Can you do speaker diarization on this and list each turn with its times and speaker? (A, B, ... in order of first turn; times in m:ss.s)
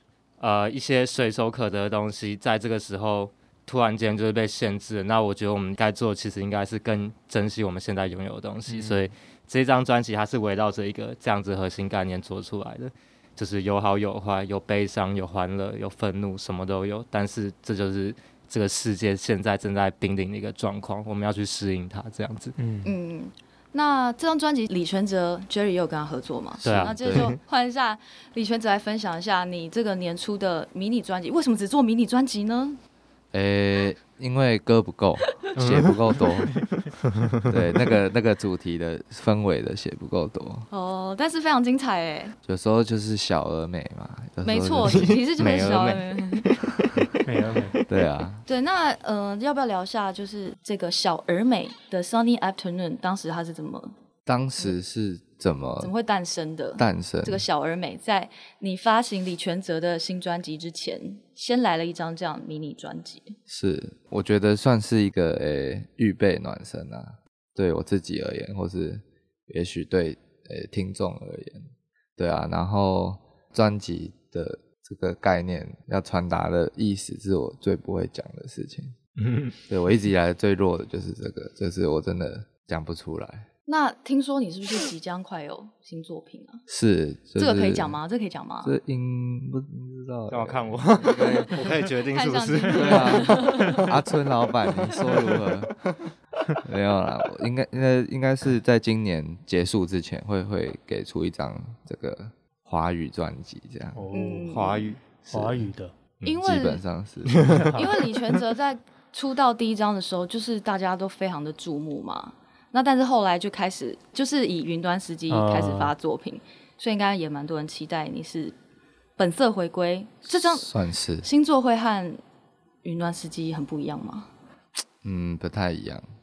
0:00.4-0:22.5 A
0:08.7-0:09.1 B
0:22.6-0:22.9 B
0:22.8-0:32.8 C
0:26.6-0:27.3 D
0:26.6-0:27.4 A
0:33.3-0:36.7 D
0:35.6-0:36.0 A
0:37.0-0:37.8 A
0:37.4-0:40.7 D
0:40.7-0:42.3 C
0:42.4-0:45.8 D
0:44.4-0:46.5 C
0:44.8-0:47.2 A
0:47.2-0:47.8 B
0:47.9-0:48.4 D
0:48.4-0:53.9 C
0:54.2-0:55.9 D
0:55.8-1:03.4 C
0:56.8-0:57.4 D
1:03.5-1:19.0 D
1:19.2-1:19.6 A
1:19.7-1:23.5 D
1:23.7-1:26.6 C
1:26.7-1:28.0 D
1:27.4-1:28.7 C
1:28.6-1:31.5 D
1:30.3-1:33.9 A
1:32.1-1:33.9 C
1:32.7-1:35.7 D
1:35.1-1:35.5 A
1:36.6-1:44.0 D
1:43.9-1:44.6 B
1:44.1-1:45.0 C
1:44.5-1:45.0 A
1:45.3-1:45.7 D
1:45.3-1:45.9 B
1:46.2-1:46.8 C
1:46.4-1:47.6 D
1:47.2-1:47.7 A
1:47.5-1:47.9 B
1:47.7-1:58.5 C
1:55.3-1:55.9 B
1:59.2-2:02.2 C
2:00.3-2:01.3 D
2:02.8-2:04.3 C
2:05.0-2:06.0 D